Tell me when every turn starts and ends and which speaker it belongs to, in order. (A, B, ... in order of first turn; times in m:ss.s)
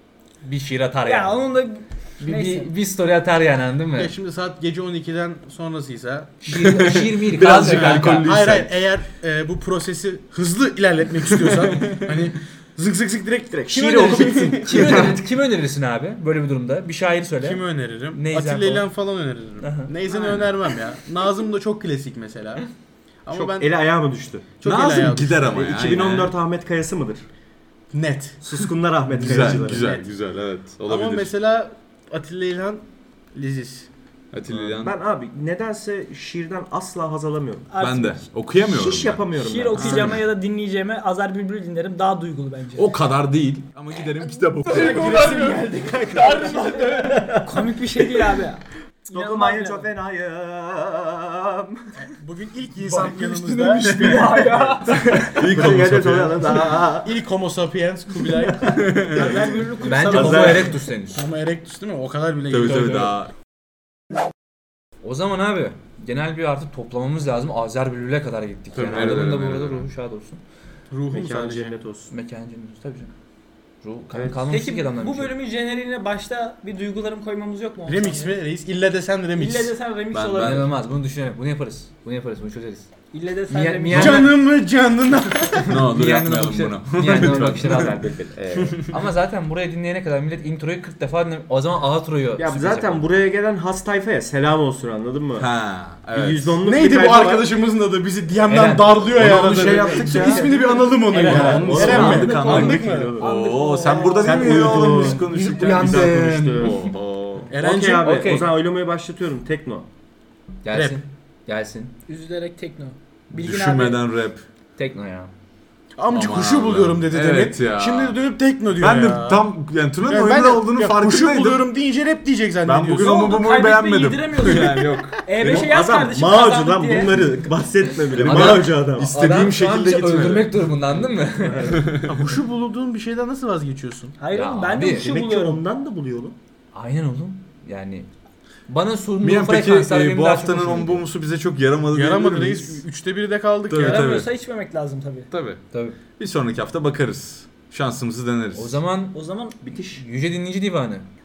0:00.4-0:01.4 A
0:01.0-0:02.7 B
0:02.2-0:04.1 A
0:04.0-0:06.7 C
0:06.4-0:08.4 A
0:06.5-0:08.7 D
0:07.5-0:15.1 C
0:11.4-0:12.2 D
0:13.6-0:15.2 E
0:13.7-0:18.9 A
0:17.4-0:22.7 C
0:19.6-0:20.0 A
0:23.2-0:23.7 C
0:23.3-0:24.5 E
0:24.6-0:25.5 C
0:24.6-0:26.3 D
0:25.5-0:27.3 E
0:27.9-0:28.4 C
0:28.4-0:30.0 E
0:29.1-0:29.9 C
0:29.2-0:31.3 D
0:30.9-0:33.9 C
0:34.3-0:35.0 D
0:34.5-0:37.7 E
0:37.7-0:38.2 B
0:37.8-0:39.2 D
0:38.6-0:40.2 E
0:39.4-0:43.0 B
0:39.8-0:40.2 D
0:42.8-0:45.6 D
0:44.7-0:46.5 C
0:44.7-0:48.4 E
0:46.2-0:46.6 D
0:46.7-0:49.9 B
0:49.1-0:52.0 E
0:52.0-0:54.6 C
0:52.9-0:57.2 E
0:53.8-0:54.3 D
0:54.0-0:55.0 B
0:55.2-0:56.7 D
0:56.5-1:03.1 C
0:58.2-1:00.7 E
0:58.6-0:59.4 D
0:59.2-1:00.7 B
0:59.7-1:01.2 A
1:02.5-1:03.3 D
1:02.7-1:03.1 A
1:05.0-1:10.4 A
1:08.7-1:09.9 D
1:10.9-1:11.8 C
1:11.1-1:12.1 E
1:12.1-1:13.1 A
1:13.8-1:15.3 A
1:14.1-1:14.4 E
1:14.5-1:18.4 B
1:17.9-1:19.7 C
1:19.4-1:20.7 B
1:20.1-1:20.7 D
1:20.4-1:22.9 A
1:23.1-1:24.3 B
1:23.5-1:24.4 A
1:23.9-1:25.8 C
1:25.7-1:27.9 D
1:25.7-1:28.0 A
1:27.1-1:28.9 E
1:28.8-1:33.0 A
1:32.4-1:35.5 E
1:35.4-1:36.6 D
1:36.1-1:37.6 E
1:36.6-1:43.2 C
1:38.5-1:40.4 A
1:39.2-1:40.7 D
1:39.2-1:43.3 E
1:41.0-1:42.8 A
1:41.2-1:47.5 D
1:43.2-1:44.6 B
1:43.9-1:46.9 E
1:44.5-1:46.7 C
1:47.5-1:48.3 C
1:47.6-1:49.9 E
1:47.9-1:48.5 A
1:50.6-1:51.9 A
1:50.7-1:51.0 C
1:52.1-1:54.0 B
1:53.3-1:54.4 D
1:54.8-1:55.3 A
1:56.0-1:59.4 C
1:56.1-1:58.2 D
1:58.8-2:01.7 D
2:00.0-2:03.4 C
2:02.6-2:05.7 D
2:03.0-2:07.2 B
2:05.4-2:09.3 E
2:08.1-2:10.7 D
2:08.1-2:11.9 A
2:11.4-2:12.0 E
2:11.7-2:12.2 D
2:12.0-2:14.2 C
2:14.2-2:15.6 B
2:14.3-2:15.1 A
2:14.9-2:16.4 E
2:16.7-2:18.1 A
2:18.7-2:21.1 A
2:19.2-2:22.8 D
2:21.9-2:24.2 C
2:23.7-2:24.3 D
2:23.7-2:25.3 B
2:25.3-2:25.6 D
2:25.7-2:26.0 A
2:26.2-2:28.8 D
2:28.6-2:31.1 A
2:29.1-2:30.0 B